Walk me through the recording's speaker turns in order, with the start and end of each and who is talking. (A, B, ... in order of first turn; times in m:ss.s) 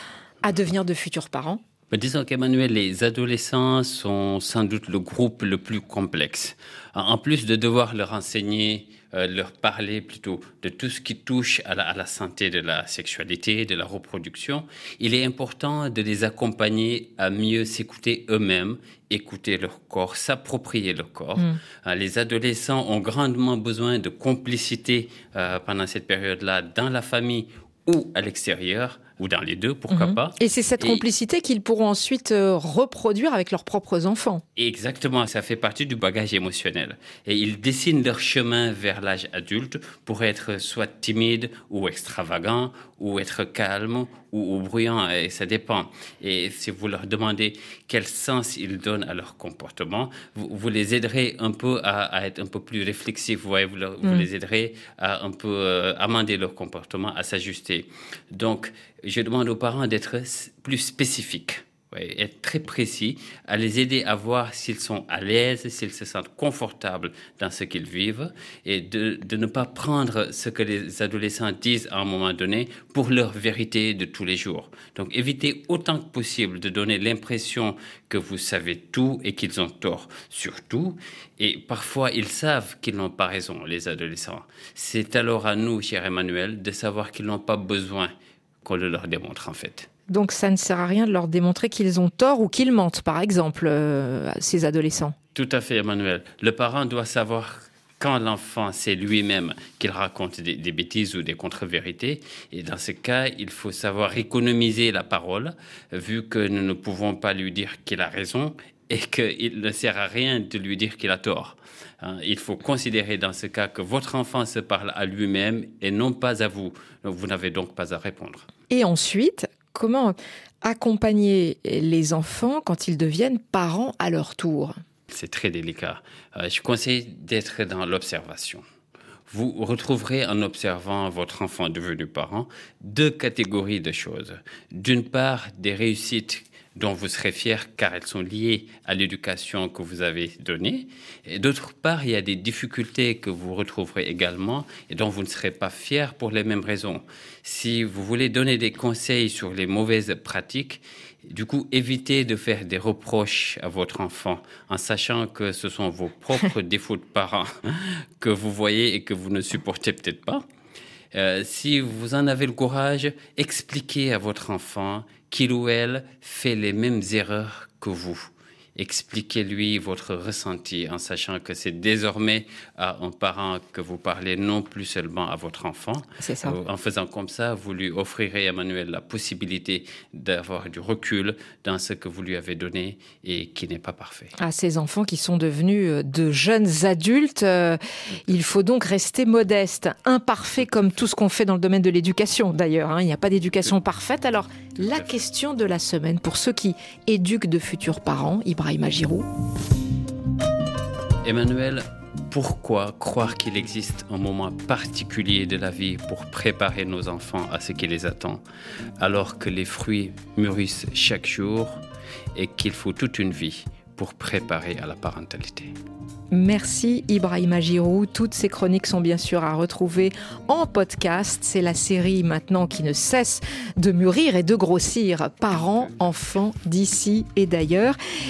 0:00.4-0:01.6 A
0:01.9-0:31.0 B
0:29.9-0:34.4 A
0:34.6-1:28.1 B
1:28.6-1:29.9 B
1:30.1-1:35.1 A
1:35.3-1:58.5 B
1:58.7-2:04.7 A
2:05.1-2:08.6 B
2:09.3-2:40.4 B
2:41.1-3:04.3 B
2:56.2-2:56.6 A
3:04.4-3:19.2 A
3:21.2-3:28.4 B
3:29.0-3:31.8 B
3:32.3-3:35.7 B
3:36.3-3:48.0 A